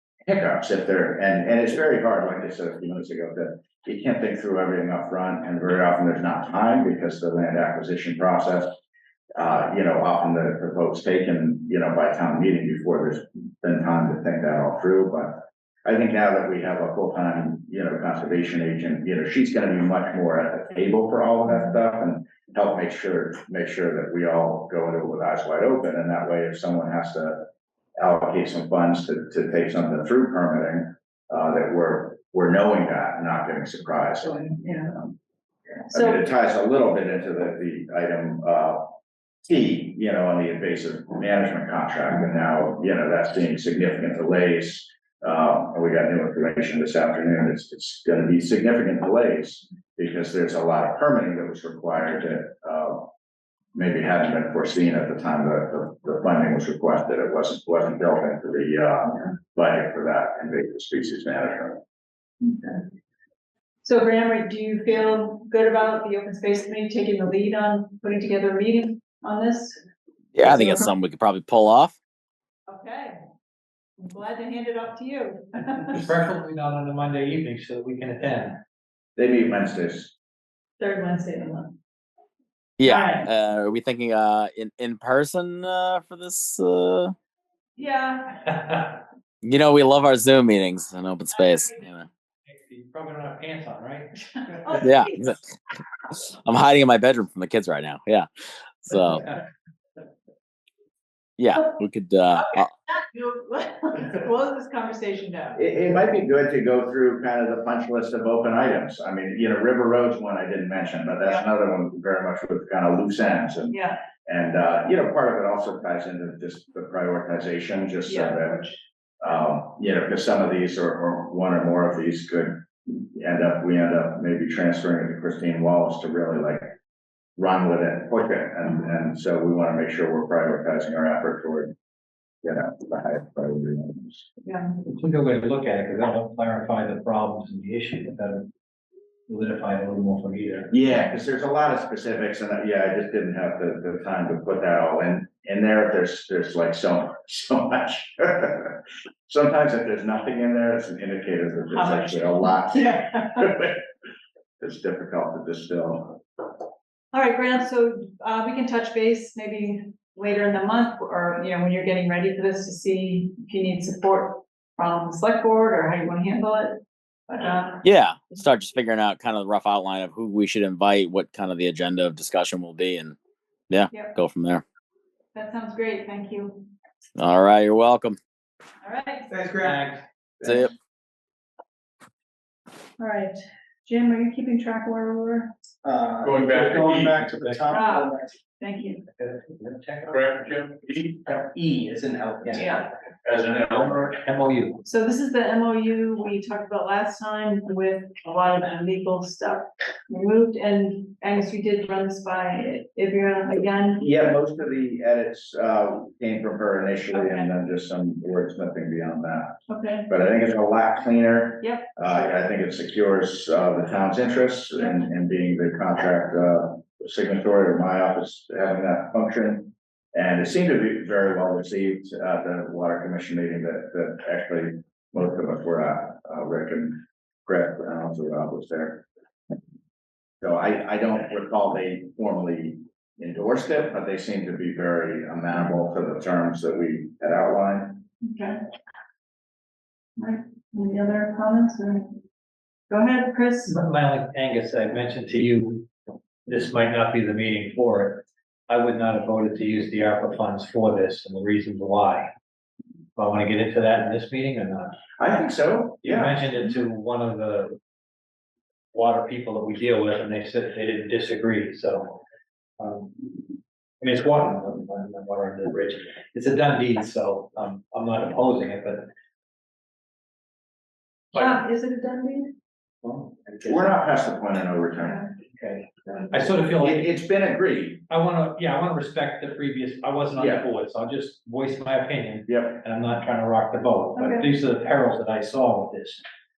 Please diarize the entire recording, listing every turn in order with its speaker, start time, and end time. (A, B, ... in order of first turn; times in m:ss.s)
0:00.3-0:08.7 A
0:09.4-0:35.1 A
0:35.9-0:38.9 A
0:35.9-0:36.2 B
0:39.4-0:53.1 A
0:53.7-1:01.8 A
1:02.4-1:02.8 B
1:03.8-1:09.8 B
1:10.3-1:12.0 C
1:10.4-1:10.9 B
1:12.7-1:13.2 B
1:14.0-1:16.0 B
1:15.9-1:18.6 D
1:19.2-1:20.1 A
1:20.8-1:21.7 B
1:22.8-1:27.1 C
1:22.8-1:23.2 B
1:27.8-1:28.3 B
1:28.5-1:28.9 D
1:29.4-1:32.1 C
1:32.4-1:34.1 D
1:34.4-1:35.3 B
1:34.8-1:35.4 C
1:36.1-1:38.3 C
1:38.8-1:39.2 C
1:41.4-1:42.7 C
1:42.4-1:45.6 B
1:45.6-1:58.6 A
1:53.7-1:54.0 B
1:58.0-1:58.8 B
1:59.2-2:06.7 A
2:07.4-2:11.7 A
2:12.4-2:14.2 A
2:14.4-2:14.8 B
2:14.8-2:18.5 D
2:19.3-2:20.7 D
2:20.7-2:33.8 A
2:31.7-2:33.5 B
2:34.6-2:36.2 A
2:37.1-2:47.8 B
2:47.8-2:53.2 C
2:53.7-2:54.6 C
2:55.3-2:56.7 B
2:57.2-2:58.2 C
2:58.8-2:59.3 B
2:59.4-2:59.6 E
2:59.6-3:00.0 D
3:00.4-3:00.7 C
3:03.0-3:05.5 B
3:05.8-3:06.2 E
3:06.2-3:07.3 F
3:06.2-3:07.8 D
3:07.2-3:08.3 E
3:07.7-3:09.0 B
3:09.2-3:10.5 D
3:10.1-3:11.6 F
3:11.6-3:11.9 D
3:11.8-3:12.8 E
3:12.4-3:12.7 D
3:12.6-3:12.8 B
3:13.2-3:14.1 F
3:13.4-3:14.8 D
3:14.8-3:24.0 B
3:24.0-3:29.6 A
3:27.1-3:27.5 B
3:29.7-3:30.1 B
3:30.1-3:49.0 A
3:31.6-3:32.1 B
3:50.4-3:58.0 A
3:58.2-3:58.6 B
4:00.2-4:02.2 B
4:02.9-4:03.8 B
4:03.7-4:05.9 D
4:06.4-4:12.3 D
4:13.2-4:14.9 D
4:15.2-4:16.7 A
4:16.0-4:17.8 D
4:18.9-4:22.2 D
4:22.8-4:29.1 D
4:31.3-4:32.5 B
4:33.0-4:33.8 D
4:33.6-4:35.3 A
4:35.5-4:37.1 D
4:36.6-4:38.0 A
4:38.1-4:46.2 D
4:40.4-4:40.6 A
4:42.5-4:42.8 A
4:44.2-4:44.5 B